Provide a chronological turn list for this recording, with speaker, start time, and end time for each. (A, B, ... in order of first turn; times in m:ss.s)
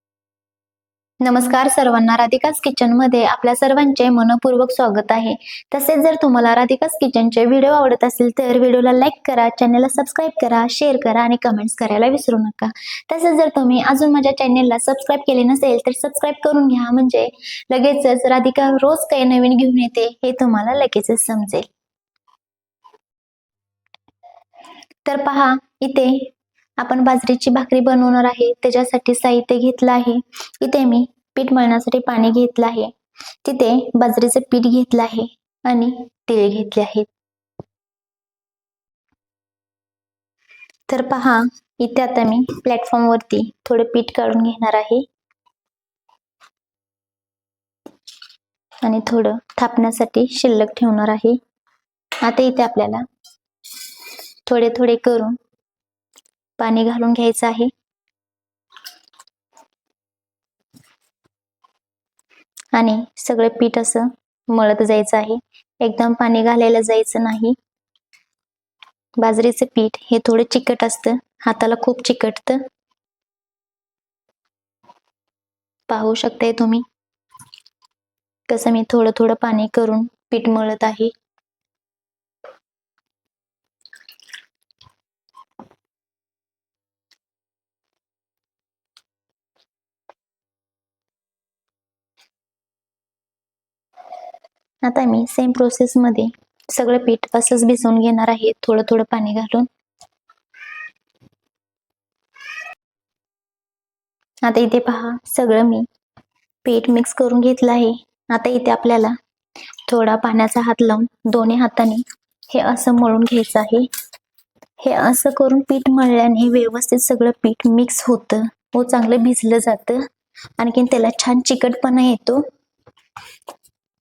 0:01.2-0:21.7 A
0:25.1-0:32.9 A
0:33.4-0:37.1 A
0:40.9-0:45.0 A
0:48.8-0:51.4 A
0:52.2-0:53.0 A
0:54.5-0:55.4 A
0:56.6-0:57.7 A
1:02.7-1:07.6 A
1:09.2-1:12.6 A
1:15.9-1:16.8 A
1:18.5-1:21.1 A
1:34.8-1:39.7 A
1:44.4-1:45.9 A
1:46.6-1:49.2 A
1:49.9-1:53.9 A
1:54.8-2:02.5 A